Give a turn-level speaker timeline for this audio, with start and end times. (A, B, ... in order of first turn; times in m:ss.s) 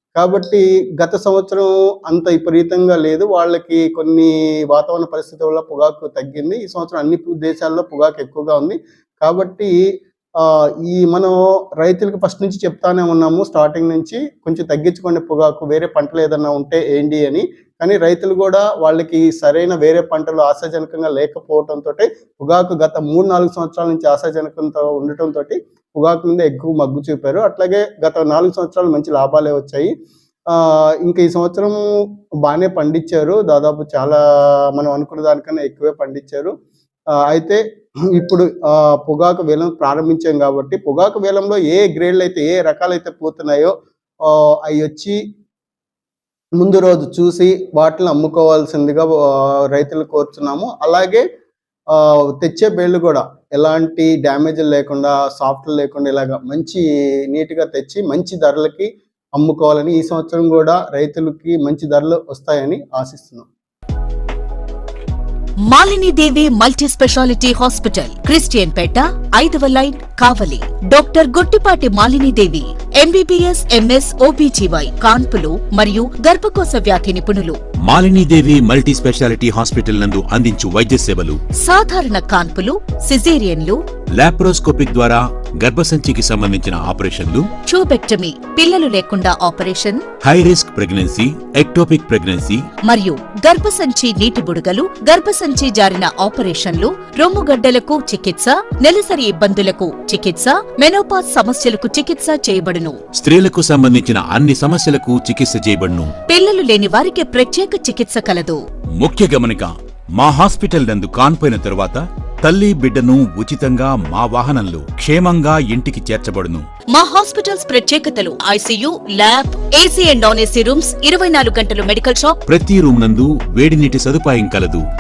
0:00.2-0:09.7 A
0:10.4-0:29.9 A
0:30.5-0:31.8 A
0:32.4-0:34.2 A
0:34.7-0:36.5 A
0:37.2-0:43.7 A
0:44.2-0:45.2 A
0:46.6-0:51.2 A
0:51.9-1:03.5 A
1:05.7-1:17.6 B
1:17.8-1:21.4 C
1:21.6-1:23.8 B
1:24.2-1:27.5 C
1:27.7-1:30.1 B
1:30.2-1:32.6 C
1:32.9-1:43.0 B
1:43.1-1:46.1 C
1:46.3-1:48.6 B
1:49.0-1:56.7 C
1:56.9-2:02.4 B
2:02.5-2:04.8 C